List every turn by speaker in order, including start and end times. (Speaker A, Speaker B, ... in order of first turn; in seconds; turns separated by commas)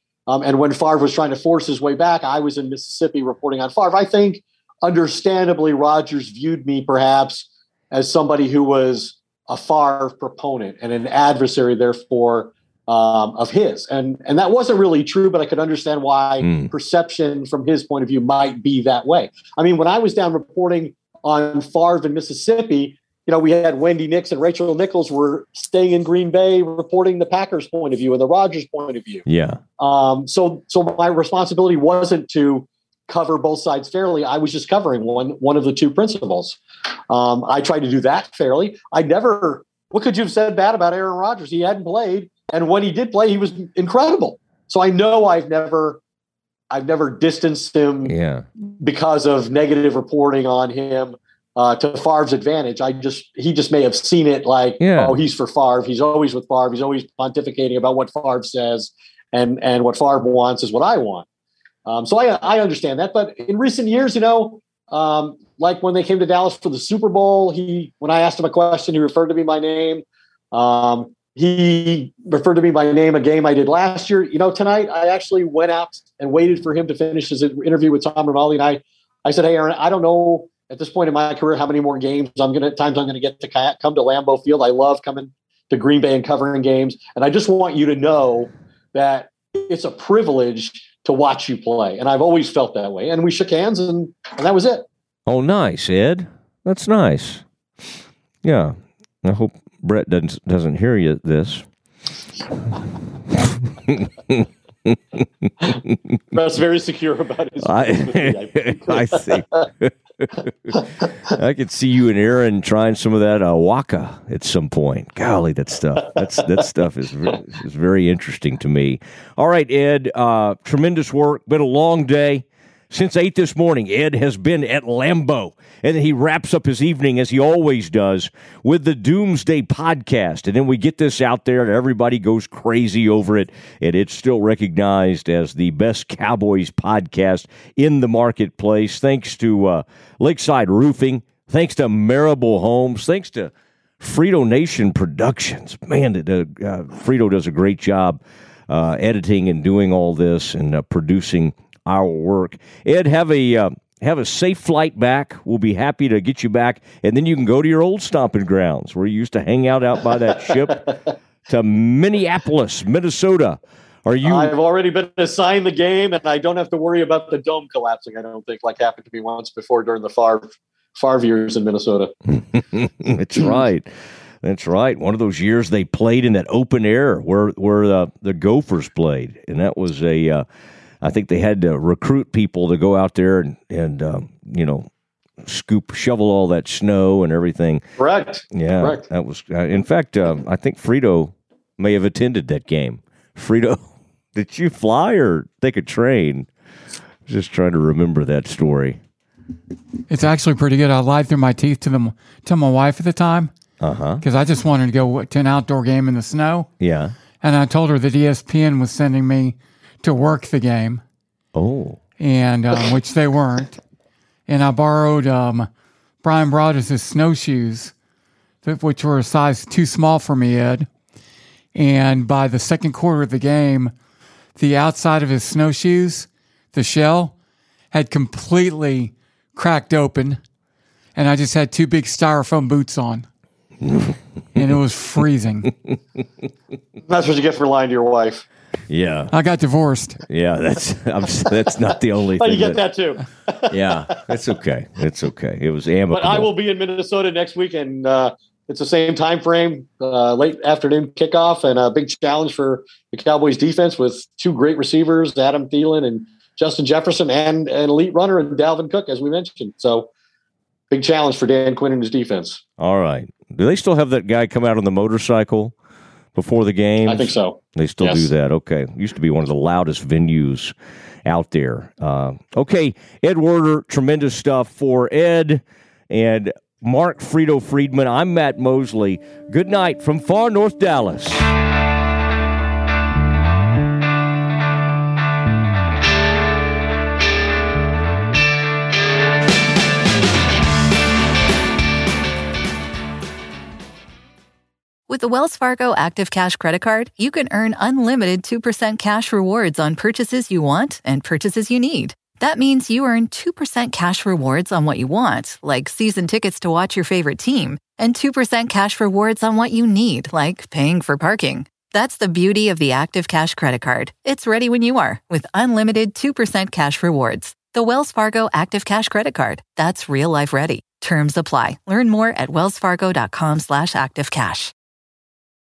Speaker A: 0.3-29.2, Speaker B: 29.3-29.6, Speaker A: 29.8-46.0, Speaker A: 46.7-61.2, Speaker B: 48.0-48.5, Speaker B: 54.8-55.1, Speaker A: 61.8-94.8, Speaker B: 95.3-97.4, Speaker B: 98.4-101.7, Speaker B: 103.3-106.0, Speaker A: 106.3-109.6, Speaker B: 107.6-110.8, Speaker B: 111.3-164.5, Speaker A: 164.2-172.1, Speaker B: 172.7-173.9, Speaker B: 174.4-180.4, Speaker B: 181.0-184.9, Speaker B: 185.4-187.8, Speaker A: 188.0-189.0, Speaker B: 188.5-196.5, Speaker B: 197.3-199.0, Speaker C: 200.1-203.5, Speaker B: 203.8-204.2, Speaker C: 204.2-206.7, Speaker B: 206.8-207.1, Speaker C: 207.4-211.0, Speaker B: 211.5-212.0, Speaker C: 212.2-213.8, Speaker C: 214.5-215.7, Speaker C: 216.2-217.9, Speaker C: 218.6-220.9, Speaker C: 221.7-223.9, Speaker C: 224.6-227.3, Speaker C: 227.9-230.4, Speaker C: 231.1-233.2, Speaker B: 233.8-234.2, Speaker C: 234.5-235.7, Speaker A: 237.0-238.4, Speaker B: 238.9-239.3, Speaker C: 239.3-240.2, Speaker B: 240.3-242.8, Speaker A: 242.4-244.2, Speaker B: 243.7-246.5, Speaker A: 246.1-260.1, Speaker A: 260.9-262.6, Speaker B: 262.8-265.7, Speaker B: 266.3-270.7, Speaker A: 267.1-268.3, Speaker B: 271.2-281.5, Speaker D: 295.1-324.7